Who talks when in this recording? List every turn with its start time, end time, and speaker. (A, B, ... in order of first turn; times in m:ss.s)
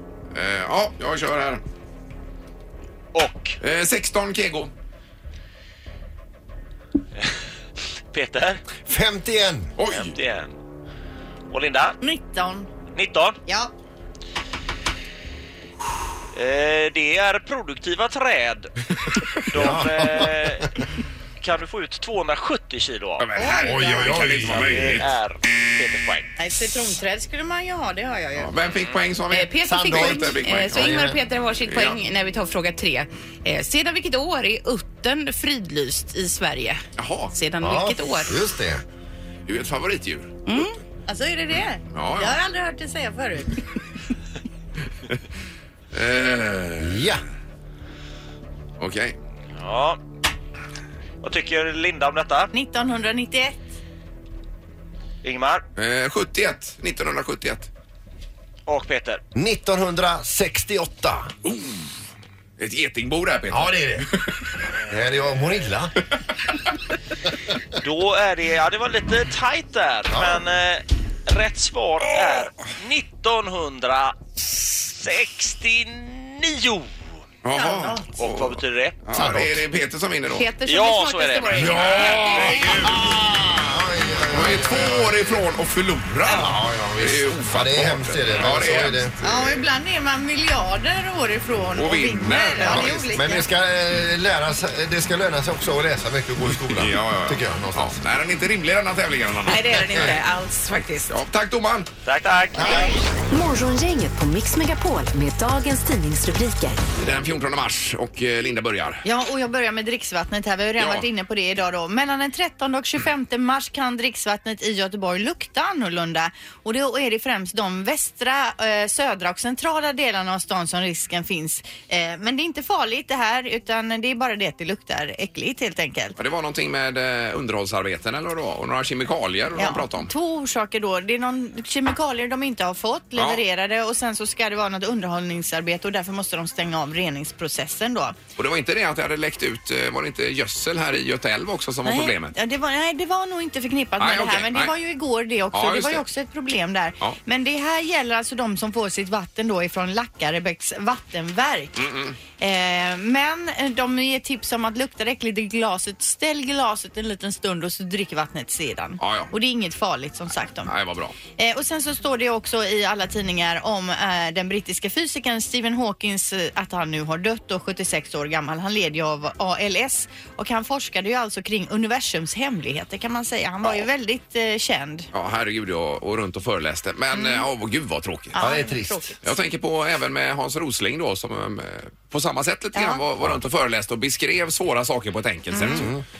0:00.3-0:01.6 A
0:03.1-0:03.6 B
0:03.6-0:04.7 A
0:08.1-0:08.6 B
0:08.8-0:09.7 C
0:09.8-0:10.2 A
0:09.9-0:10.5 B
0:11.5-0:12.0 B
0:12.0-0:12.7 D
0:12.9-0:13.4 B
0:16.3-0:18.7 B
0:19.5-0:20.8 B
0:19.5-0:20.7 C
0:21.4-0:23.5 B
0:23.2-0:25.1 A
0:23.4-0:24.3 D
0:23.6-0:25.0 C
0:24.4-0:26.3 B
0:26.4-0:28.6 D
0:28.4-0:31.1 A
0:28.7-0:29.0 B
0:29.3-0:38.4 E
0:29.6-0:31.2 C
0:31.6-0:32.0 A
0:37.0-0:37.3 A
0:37.6-0:38.8 C
0:39.4-0:40.6 A
0:40.4-0:40.8 E
0:41.1-0:43.7 D
0:41.9-0:42.4 A
0:45.9-0:47.1 A
0:46.8-0:47.2 C
0:48.8-0:49.2 A
0:49.6-0:50.0 B
0:51.2-0:52.5 B
0:52.5-0:53.6 D
0:55.2-0:55.6 B
0:55.8-0:57.7 A
0:58.6-0:59.2 B
0:59.3-1:01.3 C
1:01.4-1:01.9 A
1:02.6-1:04.3 A
1:03.5-1:04.1 C
1:04.8-1:05.9 C
1:07.8-1:16.9 B
1:10.1-1:10.4 C
1:17.4-1:20.5 A
1:17.6-1:18.1 D
1:18.2-1:19.0 B
1:19.1-1:19.6 C
1:20.3-1:22.7 E
1:20.6-1:22.4 B
1:21.5-1:23.1 A
1:21.6-1:25.4 C
1:24.3-1:29.6 A
1:26.2-1:29.5 C
1:29.2-1:33.4 D
1:31.7-1:33.1 A
1:32.6-1:38.0 C
1:36.5-1:40.2 A
1:39.5-1:41.1 E
1:41.1-1:41.9 A
1:42.0-1:42.8 B
1:42.6-1:42.9 C
1:42.6-1:42.9 D
1:43.3-1:46.8 F
1:47.0-1:49.0 A
1:49.0-2:06.2 D
1:50.8-1:51.1 A
2:06.2-2:10.1 A
2:09.6-2:18.2 D
2:13.2-2:13.4 A
2:18.4-2:22.4 A
2:21.8-2:40.7 D
2:24.0-2:24.7 A
2:25.5-2:26.0 A
2:31.8-2:32.2 A
2:39.0-2:39.3 A
2:40.6-2:41.2 A
2:41.4-2:55.1 D
2:55.1-2:58.4 A
2:57.1-2:57.5 D
2:58.3-2:59.2 D
2:58.4-2:59.1 C
2:59.2-3:05.9 A
3:02.7-3:03.0 D
3:05.5-3:05.9 D
3:05.6-3:06.0 C